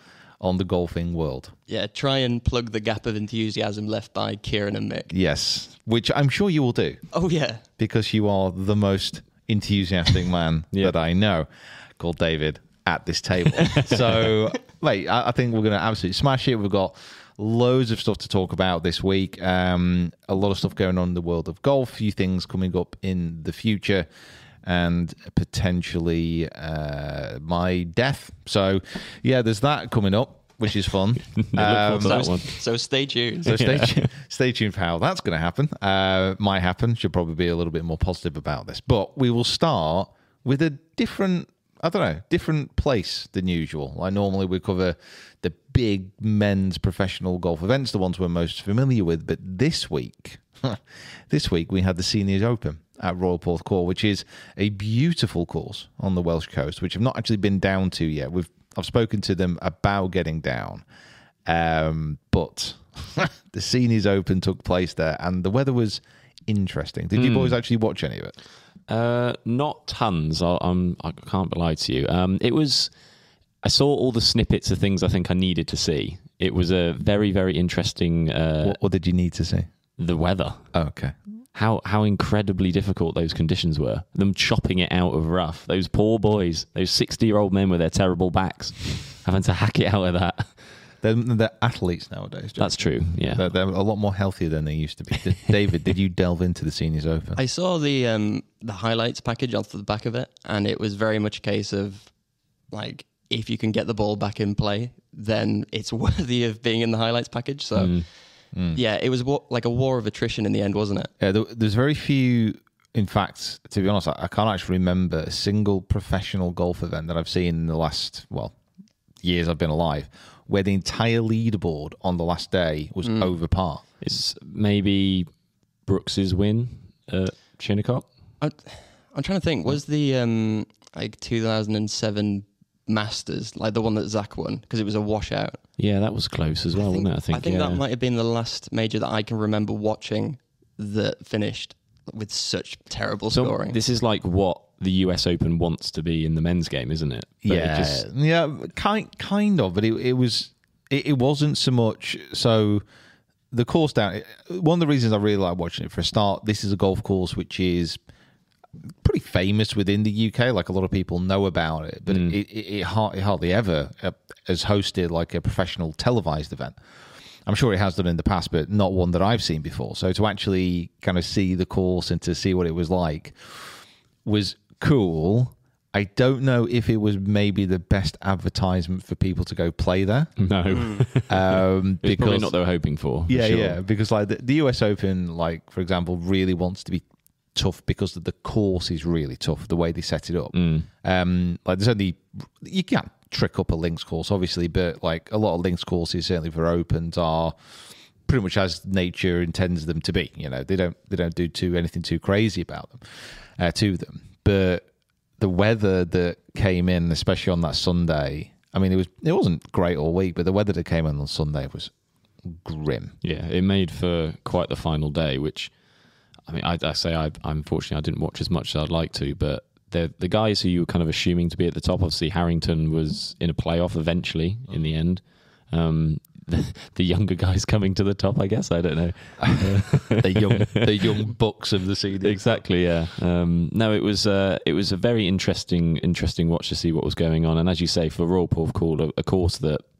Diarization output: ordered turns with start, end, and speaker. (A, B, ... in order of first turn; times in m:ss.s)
0:00.4-0:01.5 A
0:01.7-0:05.1 B
0:05.1-0:07.0 A
0:07.1-0:07.6 B
0:07.8-0:24.1 A
0:24.6-0:32.3 A
0:31.4-0:32.6 C
0:32.0-0:33.6 B
0:33.4-0:34.1 C
0:33.4-1:00.8 A
1:01.4-1:08.3 A
1:07.2-1:07.6 C
1:08.9-1:12.9 C
1:13.6-1:18.8 C
1:18.6-1:19.7 A
1:20.0-1:20.6 C
1:20.7-1:21.1 A
1:21.5-1:30.5 C
1:31.0-1:37.4 A
1:32.6-1:33.5 C
1:37.4-1:42.1 B
1:42.7-1:48.0 B
1:47.8-1:48.0 C
1:48.5-1:48.8 A
1:48.7-1:51.1 B
1:51.2-1:58.5 A
1:59.2-2:03.8 A
2:03.0-2:03.3 B
2:04.0-2:05.3 C
2:05.8-2:08.1 C
2:08.4-2:15.6 B
2:15.8-2:17.8 C
2:16.8-2:23.8 B
2:23.3-2:28.0 C
2:27.4-2:32.8 A
2:33.5-2:38.0 A
2:39.0-2:46.8 A
2:42.1-2:42.3 C
2:47.4-3:00.3 A
3:00.4-3:03.8 C
3:00.7-3:01.0 B
3:01.3-3:02.6 A
3:03.3-3:17.5 A
3:10.5-3:10.9 C
3:18.2-3:31.9 A
3:32.4-3:33.2 A
3:33.2-3:35.7 C
3:36.5-3:51.2 C
3:49.4-3:52.6 A
3:52.2-3:59.8 C